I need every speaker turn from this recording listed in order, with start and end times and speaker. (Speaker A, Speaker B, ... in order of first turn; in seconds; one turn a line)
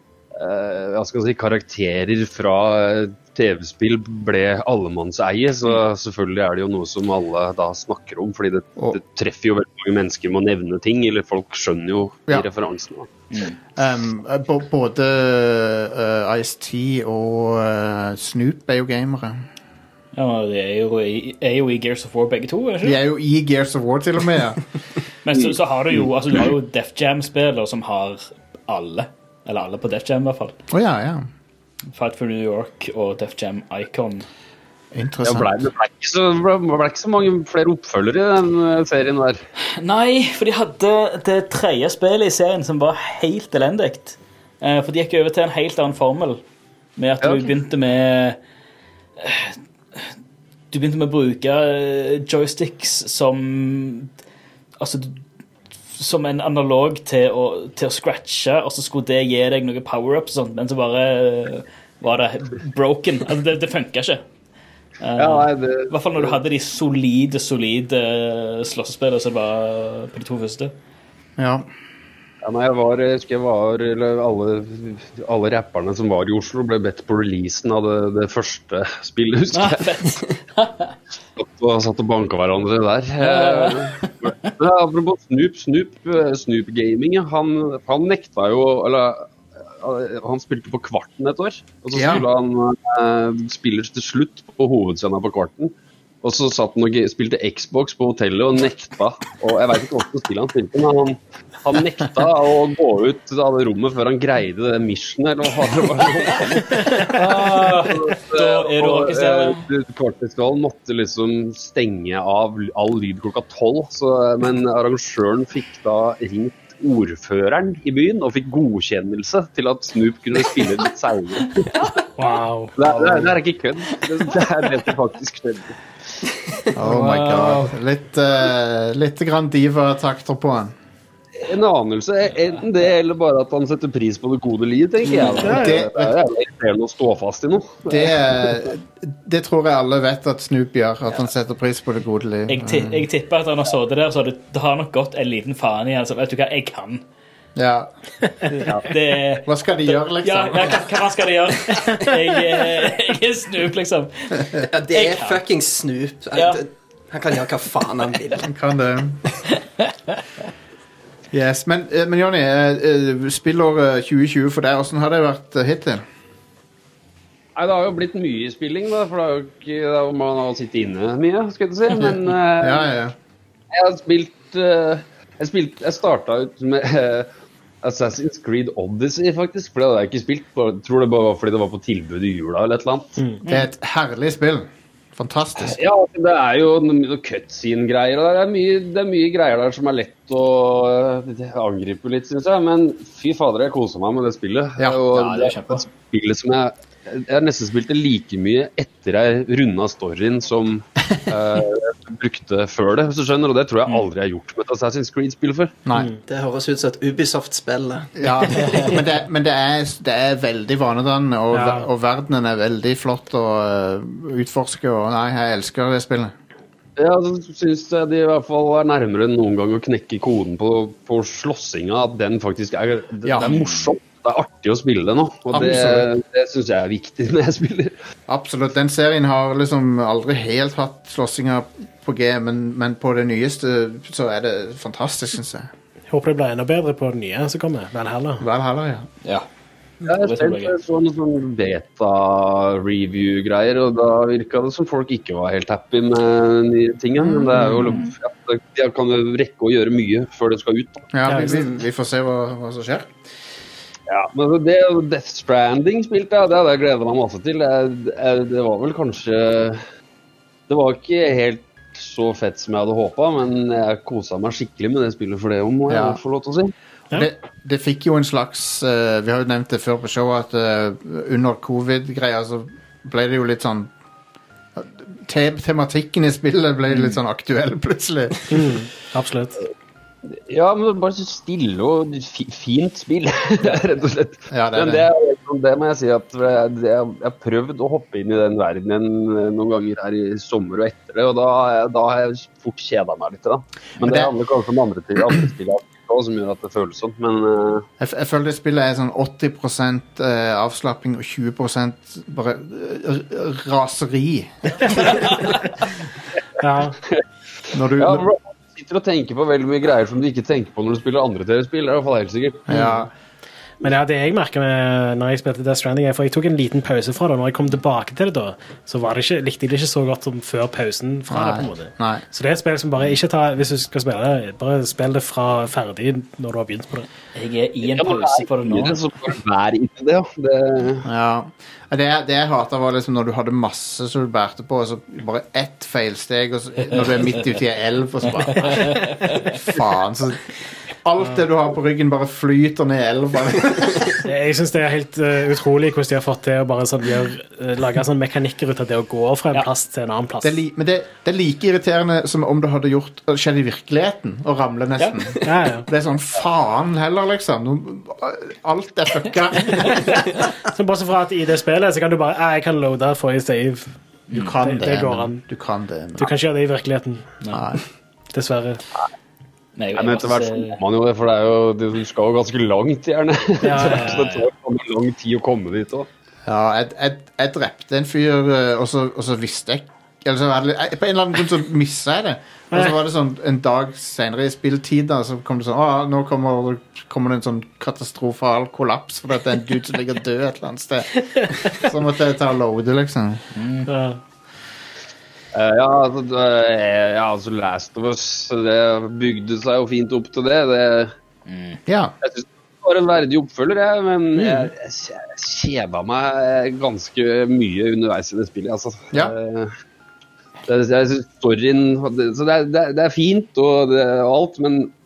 Speaker A: 0.3-13.1
Speaker B: 13.3-13.6
Speaker C: 13.8-19.4
Speaker B: 20.1-23.0
Speaker C: 22.8-24.6
Speaker B: 25.2-30.6
Speaker C: 30.7-31.2
Speaker B: 31.9-34.3
Speaker C: 34.9-35.5
Speaker A: 35.2-39.4
Speaker B: 39.7-46.4
Speaker B: 47.0-48.4
Speaker A: 47.2-47.5
Speaker B: 49.2-50.1
Speaker B: 50.7-54.1
Speaker B: 54.8-55.2
Speaker B: 55.9-64.2
Speaker B: 65.0-70.7
Speaker A: 65.2-66.4
Speaker C: 71.4-71.7
Speaker A: 72.4-80.0
Speaker B: 79.5-80.9
Speaker A: 81.3-95.7
Speaker B: 83.2-84.5
Speaker C: 91.9-92.2
Speaker A: 96.2-121.8
Speaker B: 106.8-109.6
Speaker D: 122.2-122.9
Speaker A: 122.8-125.7
Speaker B: 124.2-124.9
Speaker B: 126.7-127.7
Speaker C: 126.8-130.7
Speaker A: 131.4-138.5
Speaker B: 135.1-135.6
Speaker D: 135.4-135.7
Speaker C: 135.4-136.1
Speaker C: 137.8-143.1
Speaker B: 142.5-147.0
Speaker C: 147.6-147.9
Speaker B: 148.5-155.4
Speaker C: 149.4-150.8
Speaker E: 154.6-158.5
Speaker B: 156.3-156.6
Speaker C: 158.4-159.2
Speaker B: 159.8-160.2
Speaker C: 161.3-166.0
Speaker A: 167.6-172.9
Speaker C: 172.0-173.1
Speaker A: 173.7-177.3
Speaker A: 177.8-183.2
Speaker C: 183.4-185.8
Speaker A: 185.6-205.8
Speaker B: 195.1-195.8
Speaker C: 205.8-206.1
Speaker E: 206.2-208.9
Speaker C: 208.2-216.3
Speaker B: 208.6-208.9
Speaker D: 211.5-211.9
Speaker A: 217.0-227.9
Speaker C: 223.2-223.5
Speaker B: 223.4-223.9
Speaker C: 225.5-226.1
Speaker C: 228.3-235.7
Speaker D: 236.1-238.4
Speaker C: 238.4-239.1
Speaker B: 240.0-240.7
Speaker A: 240.0-251.1
Speaker C: 247.2-248.0
Speaker B: 247.8-248.1
Speaker C: 251.1-253.2
Speaker D: 251.3-251.7
Speaker A: 254.1-259.8
Speaker A: 260.7-266.7
Speaker C: 265.9-266.2
Speaker C: 267.1-273.9
Speaker C: 274.8-278.8
Speaker D: 278.5-279.6
Speaker A: 280.3-297.9
Speaker C: 284.5-285.0
Speaker C: 294.0-294.3
Speaker C: 298.0-305.3
Speaker D: 306.6-306.9
Speaker C: 307.7-308.2
Speaker A: 308.0-312.8
Speaker C: 312.7-313.1
Speaker D: 313.8-327.1
Speaker C: 321.3-322.2
Speaker B: 327.3-329.0
Speaker A: 327.8-331.1
Speaker C: 331.0-338.9
Speaker B: 338.5-339.5
Speaker D: 338.6-339.2
Speaker C: 339.4-340.5
Speaker C: 341.0-344.2
Speaker D: 344.2-350.6
Speaker C: 350.4-360.5
Speaker B: 355.0-355.3
Speaker D: 355.4-355.9
Speaker D: 360.6-363.9
Speaker B: 364.3-364.6
Speaker C: 364.3-366.3
Speaker D: 364.6-365.4
Speaker D: 366.2-367.3
Speaker B: 367.4-367.7
Speaker C: 367.5-367.8
Speaker D: 368.3-368.8
Speaker B: 369.8-370.8
Speaker A: 370.0-376.1
Speaker D: 373.6-374.2
Speaker B: 373.7-374.5
Speaker C: 376.4-393.4
Speaker B: 393.5-393.9
Speaker D: 393.9-394.2
Speaker A: 395.5-401.1
Speaker B: 401.5-401.8
Speaker C: 401.9-402.1
Speaker A: 402.2-409.7
Speaker A: 410.7-414.9